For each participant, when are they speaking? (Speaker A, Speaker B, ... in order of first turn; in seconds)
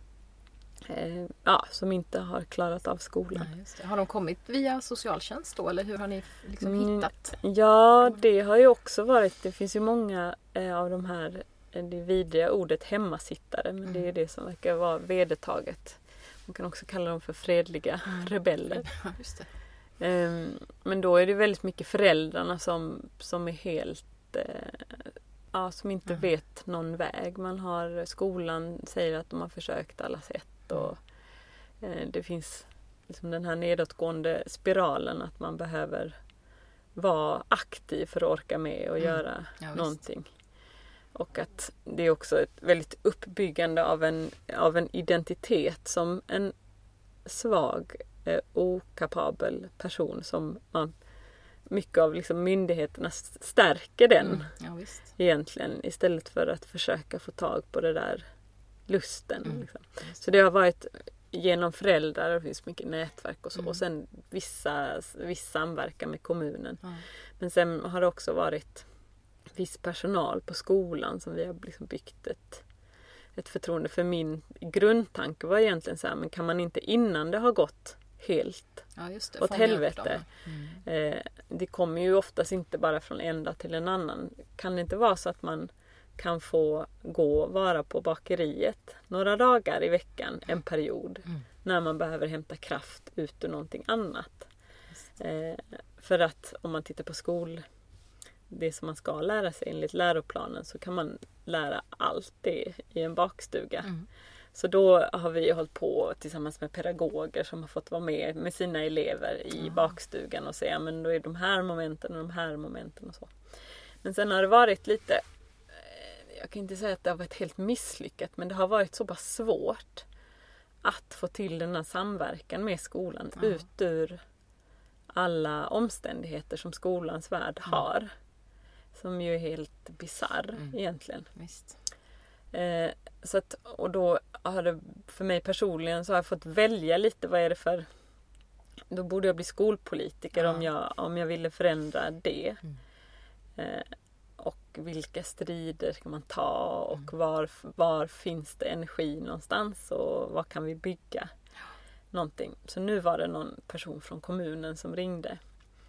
Speaker A: 0.8-3.5, 6.6-18.9, 20.0-31.0, 31.8-36.1, 36.9-40.3, 41.1-46.5, 47.2-51.0, 51.6-54.6, 55.1-58.2, 58.9-66.8, 67.4-68.8, 69.5-72.6, 73.3-78.9, 79.4-80.3, 80.8-94.5, 95.2-97.6, 98.5-103.9, 104.5-120.0, 120.8-124.2, 125.1-128.1, 128.9-131.3, 132.5-137.9, 138.9-142.6, 143.6-151.3, 152.1-155.4
Speaker B: 3.3-7.3, 18.0-19.5, 39.0-40.0, 54.2-55.1, 59.4-60.2, 79.0-80.8, 109.6-109.9, 131.3-131.8, 140.3-140.7